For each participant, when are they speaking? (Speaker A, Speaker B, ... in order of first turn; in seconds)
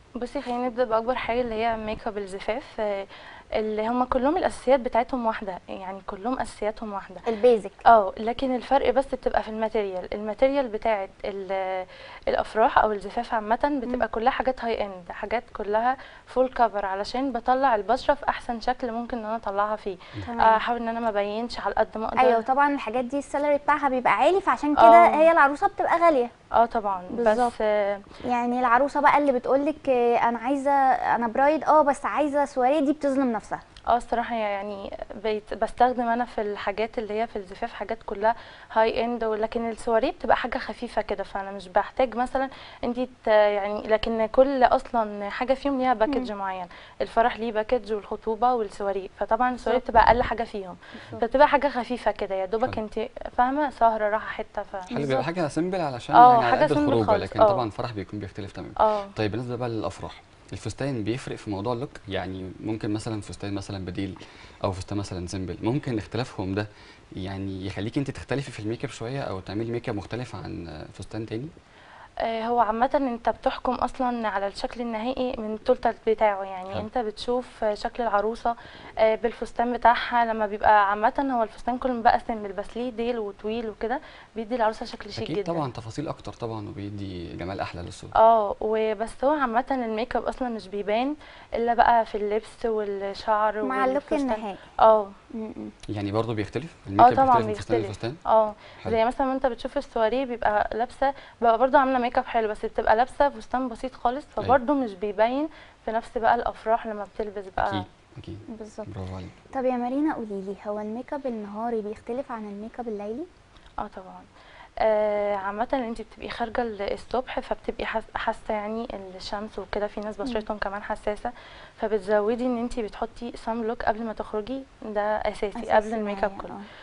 Speaker A: 0.2-7.2, 7.9-22.4, 24.8-25.2, 26.5-28.0, 33.9-55.2, 56.1-57.6, 58.8-59.1, 72.2-85.7, 88.2-95.1, 97.0-107.8, 113.8-114.2, 114.8-126.5
Speaker B: 7.2-7.8, 20.2-20.6, 22.2-26.3, 27.1-27.5, 28.2-33.6, 54.9-55.2, 93.6-94.6, 95.3-95.7, 108.5-108.9, 109.5-113.3, 125.5-126.7
Speaker C: 54.9-71.5, 85.2-88.1, 95.9-98.2, 107.6-109.3